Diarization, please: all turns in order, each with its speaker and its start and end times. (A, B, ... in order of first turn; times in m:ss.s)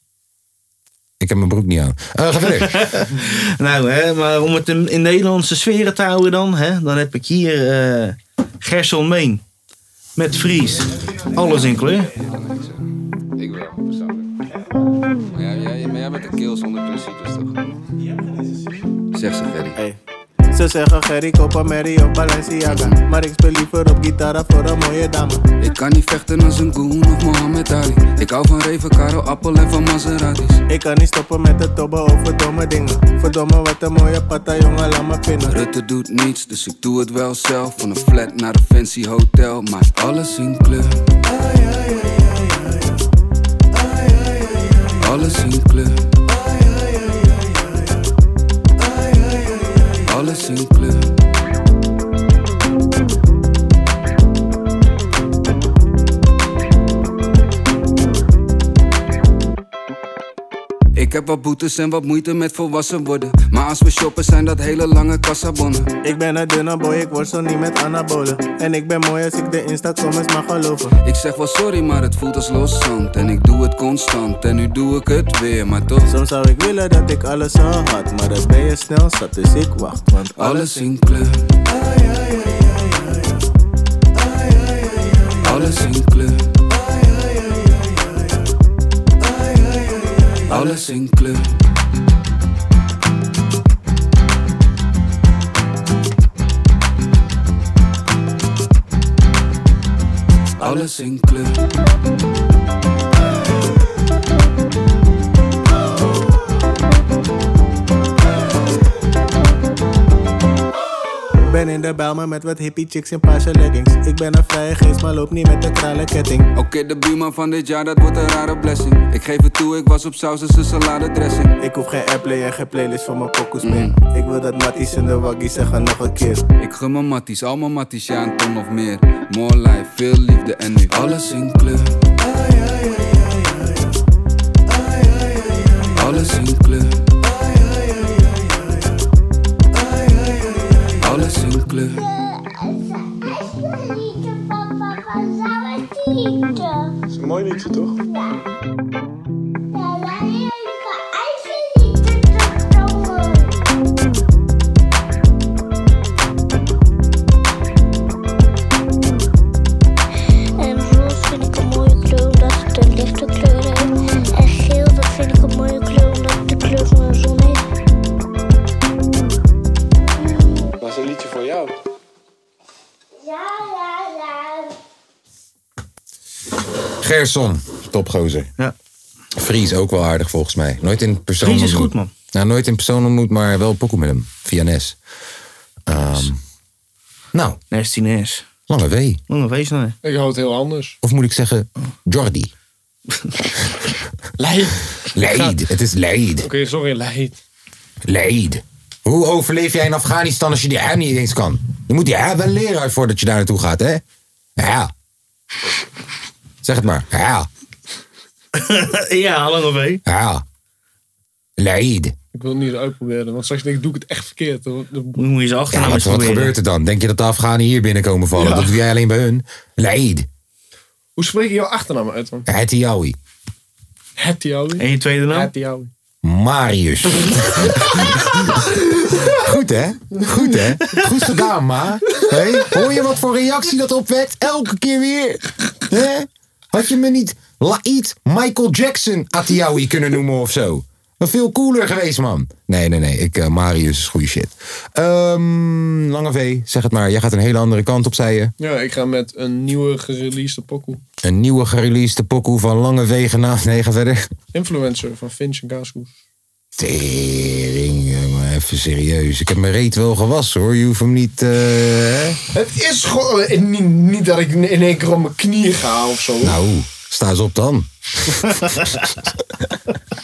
0:01.2-0:02.8 A
0:02.5-0:09.4 B
0:10.2-0:12.1 B
0:12.2-0:12.7 C
0:13.4-0:14.3 C
0:15.3-0:17.7 C
0:19.1-0:19.8 C
0:20.5-0:25.4 D
0:22.6-0:23.0 C
0:25.6-0:30.6 C
0:30.7-0:35.6 D
0:35.5-0:41.0 C
0:45.0-0:46.1 C
0:50.1-0:51.2 C
1:01.0-1:05.9 C
1:06.0-1:10.9 D
1:11.0-1:16.1 C
1:16.1-1:20.8 D
1:20.4-1:21.4 C
1:25.4-1:26.5 C
1:30.5-1:31.6 C
1:40.6-1:41.6 C
1:51.5-1:56.5 D
1:56.6-2:01.6 C
2:01.6-2:06.4 D
2:03.6-2:04.0 C
2:06.6-2:12.0 C
2:16.0-2:17.0 C
2:21.0-2:22.0 C
2:22.0-2:27.0 E
2:27.1-2:28.0 F
2:28.0-2:28.5 E
2:29.7-2:33.7 E
2:40.6-2:47.6 E
2:50.3-2:50.8 E
2:50.8-2:51.7 F
2:53.2-2:54.8 E
2:57.0-2:58.5 A
2:59.4-3:05.0 A
3:01.4-3:02.1 B
3:05.9-3:06.4 A
3:05.9-3:06.3 B
3:07.3-3:07.6 A
3:07.7-3:08.4 B
3:08.7-3:09.2 A
3:09.3-3:10.0 B
3:10.0-3:11.0 F
3:11.0-3:12.5 A
3:14.4-3:14.9 F
3:15.1-3:16.5 A
3:16.4-3:17.4 F
3:18.0-3:24.0 A
3:24.6-3:24.9 A
3:26.6-3:27.5 A
3:28.5-3:30.0 B
3:30.1-3:30.4 A
3:31.6-3:32.2 A
3:32.3-3:35.2 F
3:35.2-3:36.6 B
3:35.7-3:40.3 A
3:38.3-3:38.8 F
3:41.2-3:42.5 F
3:42.5-3:43.2 A
3:44.2-3:45.9 F
3:44.8-3:45.5 B
3:46.2-4:08.5 A
4:08.6-4:11.0 F
4:11.2-4:14.3 A
4:14.5-4:16.1 F
4:16.8-4:22.4 A
4:22.5-4:26.6 F
4:26.4-4:29.1 A